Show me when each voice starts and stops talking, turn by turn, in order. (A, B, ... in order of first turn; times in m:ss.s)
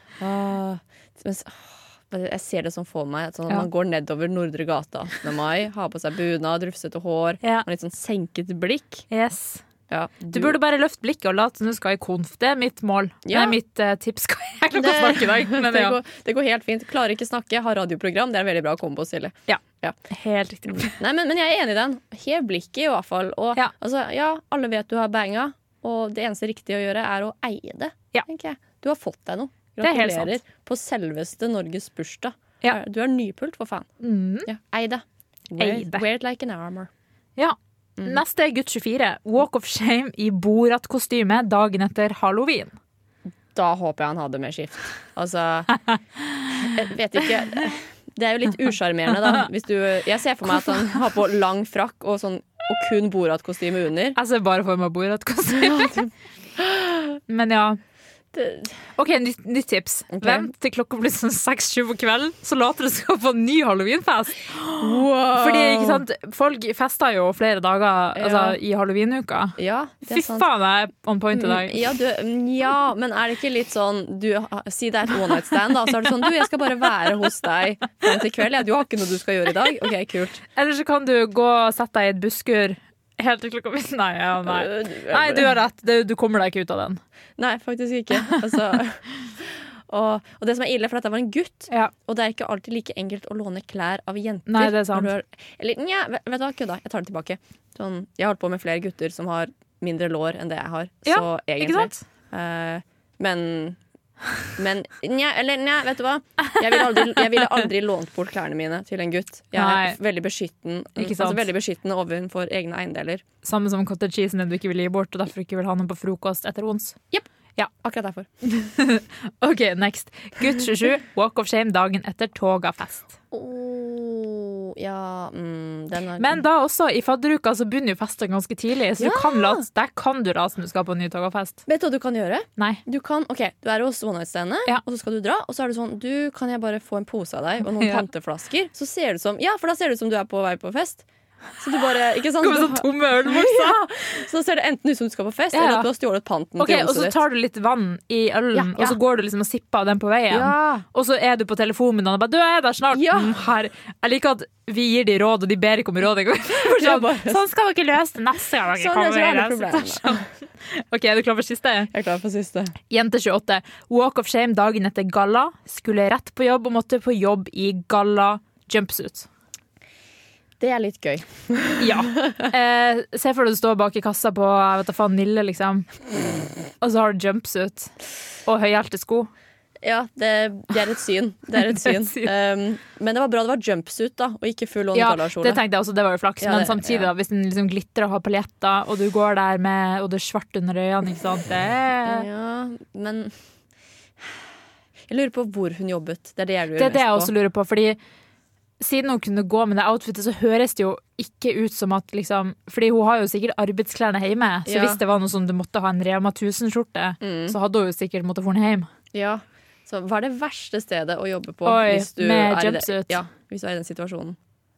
0:00.2-0:09.1 A
0:09.1-0:09.6 B
0:09.9-0:10.6 A
0:10.3-0:16.0 B
0:13.2-0:13.6 A
0:14.7-0:20.0 A
0:19.5-0:21.0 B
0:20.7-0:33.9 A
0:29.8-0:30.4 B
0:34.0-0:34.5 B
0:34.5-0:36.9 A
0:35.6-0:36.0 B
0:37.4-0:42.7 B
0:38.0-0:38.2 A
0:43.6-0:45.7 A
0:45.9-0:46.4 B
0:46.6-0:54.2 A
0:54.2-0:56.1 B
0:55.8-0:56.0 A
0:56.6-0:57.1 A
0:57.3-0:57.8 B
0:58.3-0:58.8 A
0:59.0-1:09.6 B
1:00.1-1:00.5 A
1:04.8-1:06.0 A
1:08.2-1:08.6 A
1:09.6-1:10.5 A
1:10.1-1:11.8 B
1:11.3-1:20.4 A
1:20.6-1:27.0 B
1:24.4-1:25.5 A
1:27.4-1:43.8 A
1:34.5-1:35.1 B
1:41.0-1:42.0 B
1:44.6-1:53.2 A
1:49.6-1:50.0 B
1:51.0-1:51.5 B
1:53.4-1:57.0 B
1:57.8-1:58.3 A
1:58.4-2:03.1 B
2:03.3-2:06.4 A
2:06.2-2:11.6 B
2:09.0-2:09.6 A
2:11.7-2:21.1 A
2:17.7-2:18.1 B
2:21.6-2:27.2 A
2:22.4-2:24.2 B
2:25.5-2:25.9 B
2:26.6-2:41.9 B
2:28.5-2:29.0 A
2:30.3-2:30.8 A
2:32.9-2:33.4 A
2:36.5-2:37.4 A
2:38.7-2:40.2 A
2:41.9-2:42.8 A
2:42.9-2:49.3 B
2:50.6-2:52.5 A
2:51.8-2:55.9 B
2:56.8-2:57.9 B
2:58.5-2:59.3 B
2:59.8-3:05.6 A
3:01.7-3:02.3 B
3:04.9-3:12.3 B
3:06.4-3:07.1 A
3:12.0-3:13.4 A
3:15.1-3:17.3 A
3:16.8-3:18.0 B
3:18.8-3:28.9 B
3:24.7-3:25.0 A
3:27.2-3:27.6 A
3:29.1-3:34.4 A
3:31.7-3:33.2 B